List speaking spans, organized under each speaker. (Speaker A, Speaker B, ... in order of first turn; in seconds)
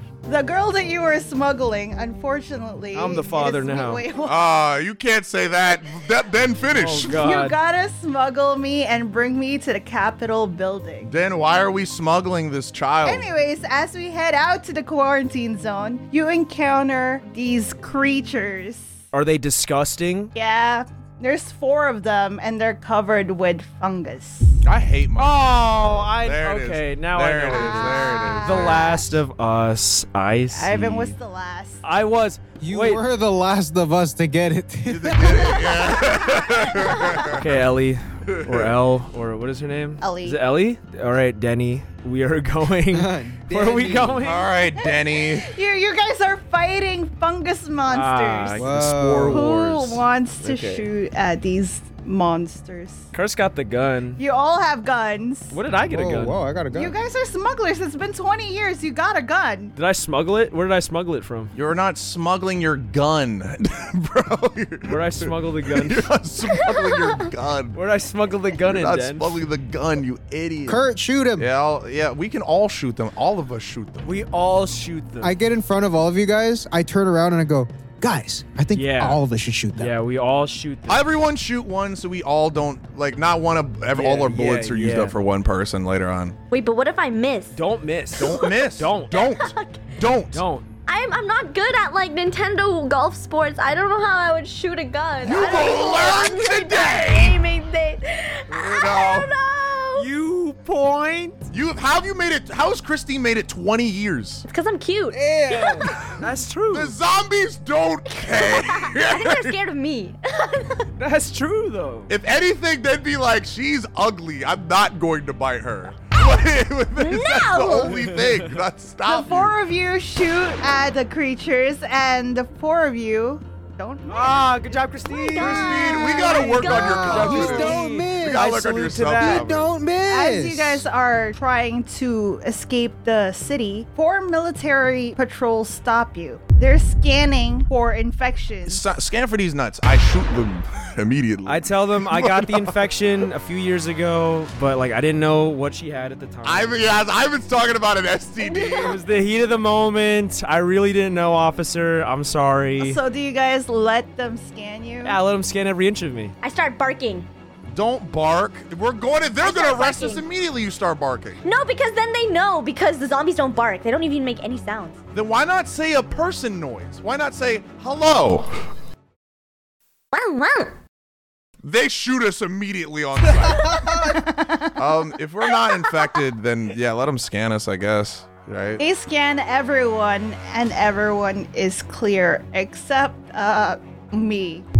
Speaker A: 0.2-4.4, 7.1-11.1, 13.1-18.9, 20.4-24.6, 27.5-29.2, 30.5-31.8, 40.0-40.4, 44.8-48.7, 49.3-53.1, 54.2-55.6, 56.7-59.7, 119.1-124.5, 130.1-138.8, 152.8-155.2, 173.6-174.8, 178.8-184.7
Speaker B: 2.9-4.0, 6.7-7.6, 19.1-20.3, 25.2-31.2, 31.8-33.0, 37.2-44.5, 47.9-50.8, 53.1-54.2, 55.5-56.4, 59.8-61.5, 64.9-66.1, 67.7-69.4, 74.0-75.4, 78.7-79.2, 79.8-81.1, 83.9-85.2, 87.5-89.2, 90.3-90.7, 100.0-101.5, 105.1-107.0, 111.0-112.1, 117.8-118.5, 124.1-125.9, 127.0-129.5, 141.5-146.8, 148.8-153.0, 155.0-156.3
Speaker C: 4.2-7.2, 11.1-13.3, 24.6-28.8, 34.9-37.4, 38.3-38.7, 44.2-45.5, 61.5-67.8, 68.7-70.8, 71.4-74.2, 80.9-86.4, 88.2-90.4, 95.2-97.4, 98.5-99.3, 101.5-104.4, 106.7-109.5, 112.1-119.5, 125.4-129.7, 138.7-142.9, 146.4-149.0, 157.7-161.4, 165.1-168.6, 171.6-174.1, 174.8-178.8
Speaker D: 32.6-35.7, 42.9-44.2, 48.5-49.4, 55.9-57.0, 70.7-71.5, 75.2-79.9, 126.6-128.5, 129.2-130.8
Speaker E: 36.9-37.2, 66.6-67.3, 86.5-87.6, 88.2-88.6, 89.2-90.0, 90.9-100.1, 104.5-106.0, 108.1-110.9, 116.1-118.0, 125.1-127.3, 148.4-148.9, 156.4-157.3, 159.4-160.2, 161.4-165.0, 170.1-170.7, 175.5-176.3